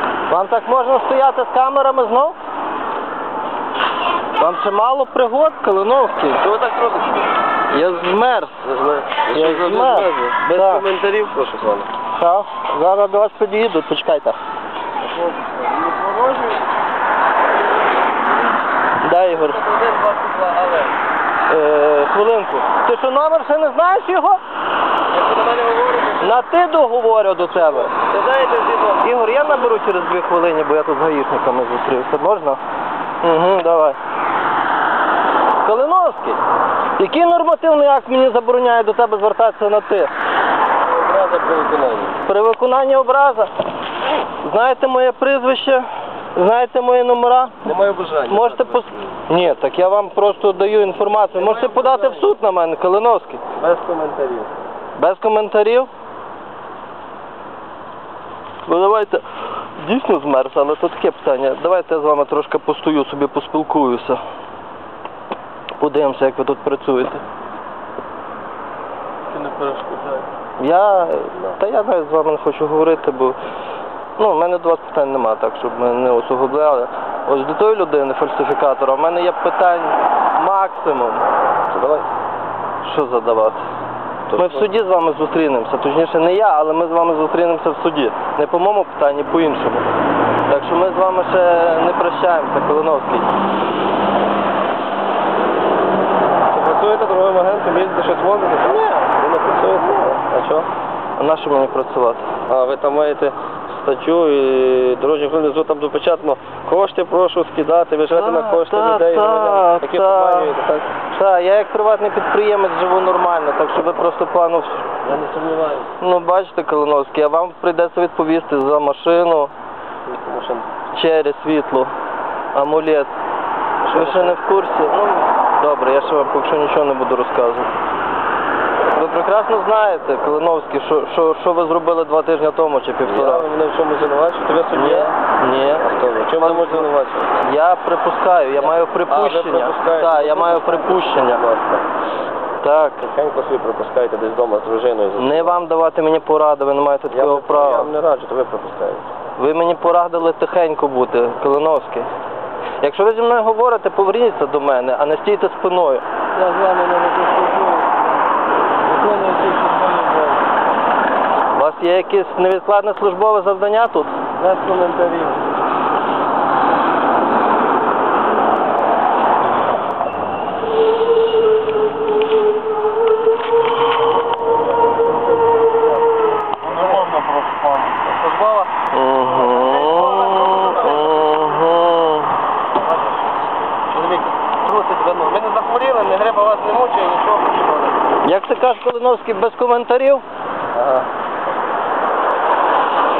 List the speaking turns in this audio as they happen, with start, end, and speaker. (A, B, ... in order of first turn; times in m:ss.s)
0:00.3-0:02.4 A
0:04.4-0:06.5 A
0:06.4-0:07.3 B
0:07.7-0:08.5 A
0:08.6-0:11.9 B
0:09.3-0:10.8 A
0:12.2-0:14.4 A
0:15.0-0:16.7 B
0:19.0-0:19.6 A
0:19.4-0:20.9 B
0:21.5-0:24.4 A
0:25.1-0:26.4 B
0:26.2-0:28.0 A
0:27.5-0:29.1 B
0:28.9-0:32.6 A
0:33.2-0:34.0 A
0:35.6-0:36.4 A
0:37.0-0:40.1 A
0:40.8-0:42.2 B
0:42.2-0:43.5 A
0:44.4-0:47.7 A
0:47.6-0:49.1 B
0:48.3-0:53.4 A
0:51.3-0:52.2 B
0:53.6-0:54.5 B
0:55.0-0:55.9 A
0:58.6-1:04.2 A
1:05.8-1:07.2 A
1:09.3-1:10.2 B
1:10.6-1:13.4 A
1:14.2-1:21.2 A
1:21.7-1:22.0 B
1:22.8-1:23.6 A
1:24.3-1:24.7 B
1:24.3-1:29.9 A
1:30.5-1:33.3 A
1:36.5-1:40.7 B
1:38.6-1:39.2 A
1:39.8-1:40.1 A
1:41.2-1:42.3 A
1:42.5-1:50.9 B
1:48.1-1:50.5 A
1:51.1-1:54.9 A
1:55.0-1:55.9 B
1:56.0-1:59.5 A
2:00.0-2:00.7 B
2:00.9-2:01.9 A
2:02.5-2:03.1 A
2:03.8-2:04.4 B
2:03.9-2:07.8 A
2:08.9-2:13.5 A
2:13.0-2:15.2 B
2:14.7-2:21.4 A
2:15.8-2:17.4 B
2:18.6-2:21.8 B
2:22.6-2:23.0 A
2:23.0-2:25.6 B
2:25.2-2:27.9 A
2:27.1-2:29.1 B
2:29.4-2:32.1 A
2:32.8-2:36.0 A
2:36.3-2:38.1 B
2:38.8-2:40.5 B
2:41.5-2:44.2 A
2:44.4-2:45.4 B
2:56.6-2:58.7 B
2:58.8-3:02.4 A
2:59.4-3:01.5 B
3:02.8-3:03.1 B
3:03.9-3:08.0 B
3:08.2-3:10.2 A
3:10.7-3:11.1 B